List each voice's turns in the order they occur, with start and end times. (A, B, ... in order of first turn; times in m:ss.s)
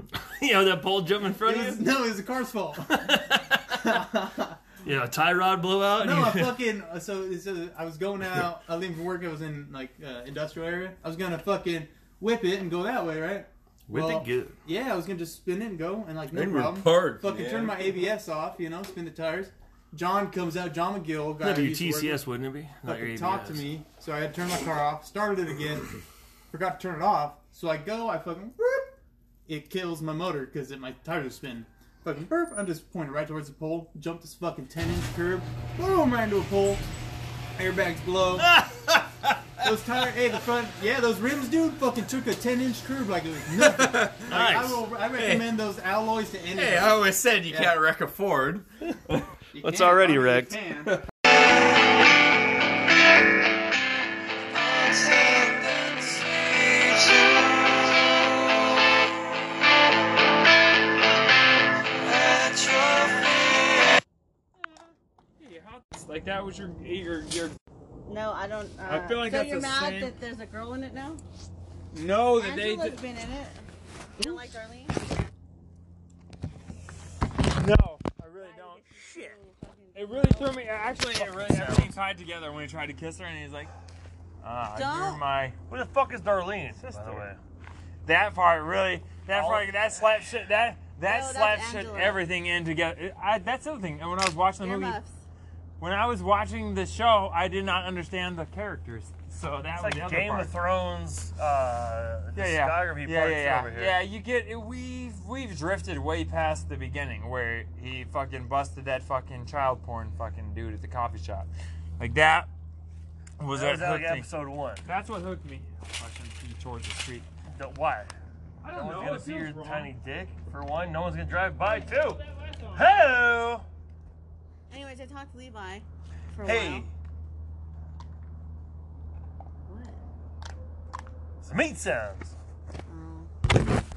0:00.2-0:01.8 A
0:01.4-0:04.6 B
0:03.0-0:03.6 A
0:04.8-0:06.6 A
0:06.0-0:22.2 B
0:13.9-0:14.6 A
0:16.3-0:17.8 C
0:21.4-0:23.7 A
0:22.8-0:25.9 B
0:26.5-0:28.9 B
0:29.5-0:36.9 B
0:37.6-0:38.6 B
0:38.4-0:39.1 A
0:39.6-0:47.8 B
0:43.6-0:44.3 C
0:44.3-0:44.8 A
0:45.2-0:45.5 C
0:46.5-0:48.7 C
0:49.5-0:51.0 B
0:49.6-0:50.6 A
1:05.4-1:07.6 D
1:08.1-1:11.2 E
1:08.8-1:10.2 D
1:11.9-1:13.0 D
1:12.4-1:13.6 E
1:14.2-1:15.3 E
1:17.6-1:18.9 D
1:18.4-1:20.5 E
1:19.0-1:19.3 A
1:19.9-1:23.7 D
1:20.9-1:21.9 A
1:24.4-1:25.6 D
1:24.7-1:25.2 E
1:25.7-1:27.4 A
1:26.8-1:27.3 D
1:28.0-1:35.0 D
1:29.3-1:29.7 A
1:31.1-1:32.2 E
1:34.6-1:35.2 E
1:35.8-1:40.5 D
1:39.8-1:44.0 A
1:42.4-1:52.5 D
1:53.4-1:54.3 D
1:53.5-1:54.9 A
1:54.8-1:57.3 D
1:57.5-1:58.1 A
1:58.6-1:59.9 D
1:58.7-2:03.6 A
2:04.7-2:06.9 E
2:06.5-2:06.9 D
2:09.7-2:10.0 E
2:11.4-2:12.4 A
2:12.9-2:13.3 E